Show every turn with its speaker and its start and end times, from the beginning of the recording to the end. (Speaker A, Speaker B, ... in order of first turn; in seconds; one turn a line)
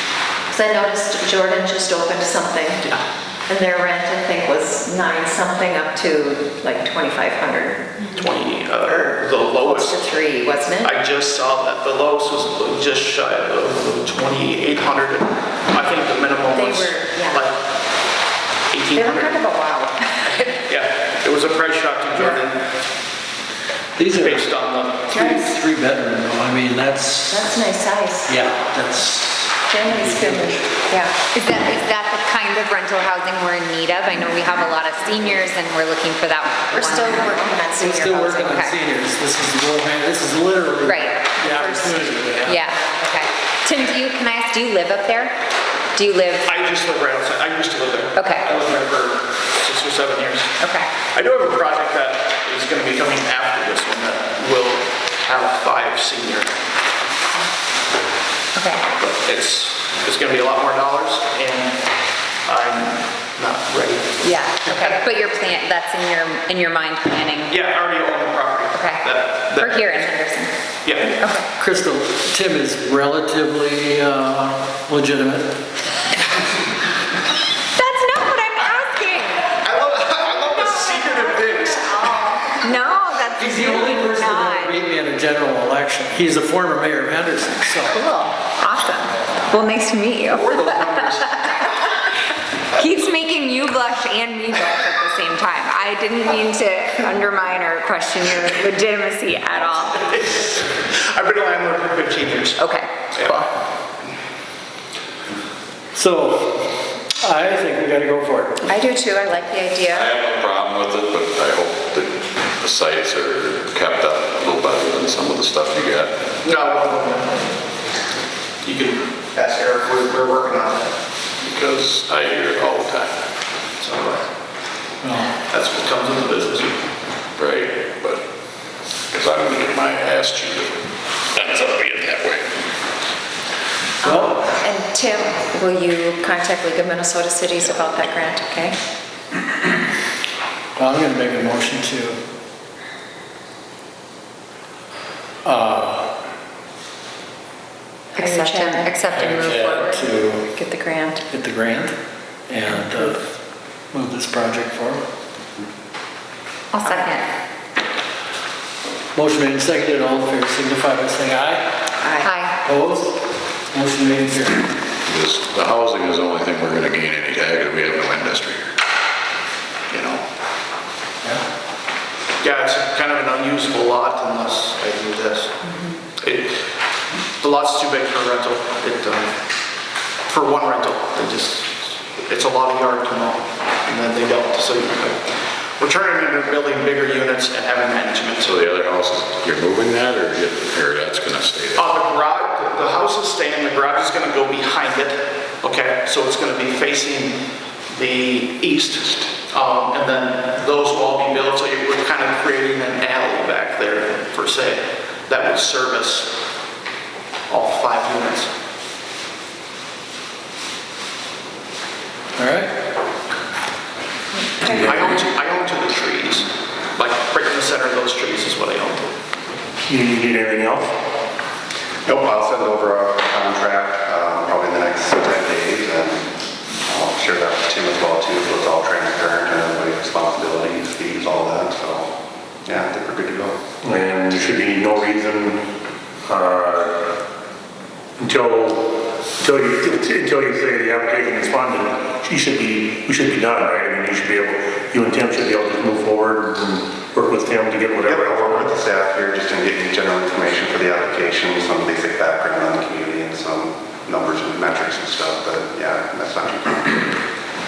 Speaker A: 0.5-2.8
Speaker A: 3.5-8.2
Speaker B: 8.1-10.1
Speaker A: 9.6-10.9
Speaker B: 10.8-17.6
Speaker A: 16.5-17.4
Speaker B: 18.7-19.4
Speaker A: 18.9-20.4
Speaker B: 20.2-22.6
Speaker C: 23.9-24.4
Speaker B: 24.1-25.1
Speaker A: 25.1-25.6
Speaker C: 25.1-27.5
Speaker A: 27.3-28.4
Speaker C: 28.3-30.8
Speaker A: 29.7-31.2
Speaker D: 31.3-37.8
Speaker A: 36.7-38.6
Speaker C: 37.8-42.6
Speaker D: 38.3-38.7
Speaker D: 40.8-45.3
Speaker D: 45.9-46.5
Speaker B: 46.5-50.5
Speaker D: 48.1-48.5
Speaker D: 50.6-50.9
Speaker B: 51.1-56.5
Speaker D: 58.5-58.8
Speaker B: 59.0-61.8
Speaker B: 62.4-65.0
Speaker D: 64.2-67.6
Speaker B: 67.5-70.1
Speaker D: 68.7-70.5
Speaker B: 70.8-71.2
Speaker D: 71.2-71.5
Speaker C: 71.6-75.6
Speaker D: 77.8-79.5
Speaker B: 79.6-82.5
Speaker D: 82.5-84.8
Speaker C: 83.4-88.0
Speaker D: 87.9-92.0
Speaker B: 90.3-91.3
Speaker D: 92.7-100.1
Speaker B: 99.6-103.5
Speaker D: 102.6-103.5
Speaker C: 105.9-108.6
Speaker D: 108.7-110.1
Speaker E: 109.9-116.2
Speaker B: 116.4-117.4
Speaker B: 118.6-120.9
Speaker E: 121.4-123.1
Speaker B: 123.8-124.2
Speaker C: 125.0-125.3
Speaker B: 125.5-126.8
Speaker E: 127.4-128.2
Speaker E: 129.1-132.5
Speaker C: 134.0-134.5
Speaker A: 134.0-138.8
Speaker C: 140.8-142.2
Speaker C: 145.4-146.1
Speaker A: 148.1-149.1
Speaker D: 148.1-150.0
Speaker C: 149.1-150.5
Speaker A: 150.5-151.2
Speaker C: 151.3-151.9
Speaker C: 152.5-153.2
Speaker C: 153.9-155.0
Speaker D: 156.7-157.3
Speaker C: 159.1-161.7
Speaker A: 162.0-162.3
Speaker D: 162.2-162.6
Speaker C: 162.6-163.2
Speaker C: 163.7-164.7
Speaker E: 165.0-168.7
Speaker E: 169.9-170.2
Speaker B: 172.4-175.6
Speaker B: 176.2-176.5
Speaker B: 177.4-179.3
Speaker B: 180.3-185.2
Speaker B: 185.8-188.6
Speaker E: 188.4-191.9
Speaker B: 191.7-206.3
Speaker B: 207.5-208.5
Speaker C: 212.4-212.7
Speaker B: 214.6-219.1
Speaker F: 219.9-220.9
Speaker G: 222.0-226.3
Speaker G: 226.8-232.1
Speaker G: 232.6-233.6
Speaker F: 233.8-235.6
Speaker F: 236.3-236.9
Speaker F: 238.2-248.8
Speaker G: 248.0-257.1